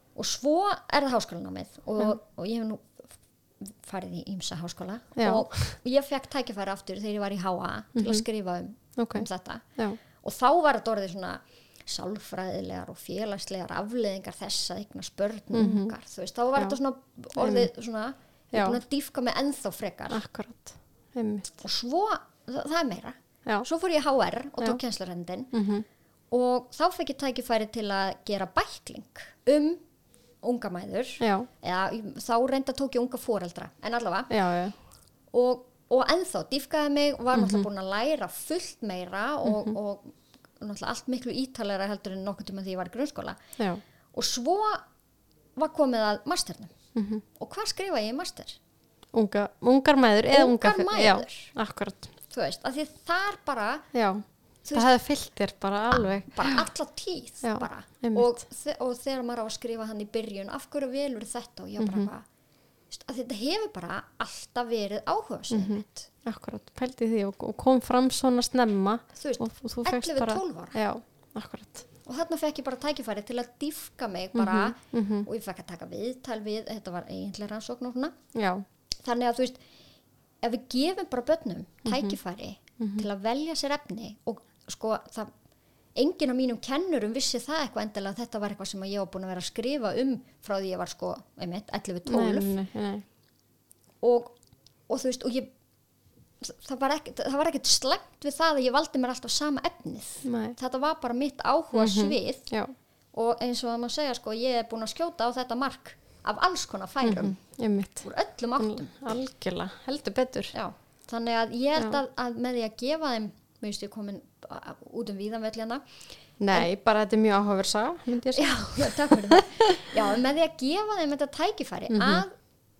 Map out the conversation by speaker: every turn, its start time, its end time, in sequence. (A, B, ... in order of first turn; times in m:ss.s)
0:00.1-0:20.2 A
0:05.2-0:05.8 B
0:07.9-0:08.2 B
0:09.0-0:10.0 B
0:15.5-0:15.9 B
0:17.4-0:17.7 B
0:18.5-0:18.8 B
0:20.1-0:21.5 B
0:21.6-0:25.5 A
0:25.5-0:25.8 B
0:26.3-0:29.8 A
0:30.4-0:34.4 A
0:31.2-0:31.5 B
0:34.3-0:34.8 B
0:35.3-0:43.4 A
0:37.3-0:37.7 B
0:39.4-0:39.7 B
0:44.1-0:44.8 A
0:45.6-0:46.7 A
0:46.9-0:47.2 B
0:47.3-0:48.6 A
0:49.1-0:52.1 B
0:50.3-0:51.5 A
0:52.3-0:53.9 A
0:53.9-0:56.6 B
0:54.6-0:54.9 A
0:55.9-1:02.2 A
0:57.4-0:58.3 B
1:01.8-1:02.1 B
1:02.9-1:06.1 A
1:05.5-1:11.8 B
1:09.2-1:10.8 A
1:12.0-1:18.1 A
1:14.3-1:15.3 B
1:18.3-1:18.6 B
1:19.0-1:19.6 A
1:20.4-1:25.3 A
1:21.8-1:22.2 B
1:22.8-1:23.0 B
1:25.9-1:32.5 A
1:32.0-1:33.0 B
1:34.0-1:34.3 A
1:34.9-1:35.5 A
1:36.4-1:42.5 A
1:40.2-1:40.6 B
1:41.7-1:42.7 B
1:43.1-1:49.0 A
1:47.0-1:50.5 B
1:50.5-1:55.8 A
1:56.4-1:59.9 B
1:58.3-2:02.3 A
2:01.9-2:02.2 B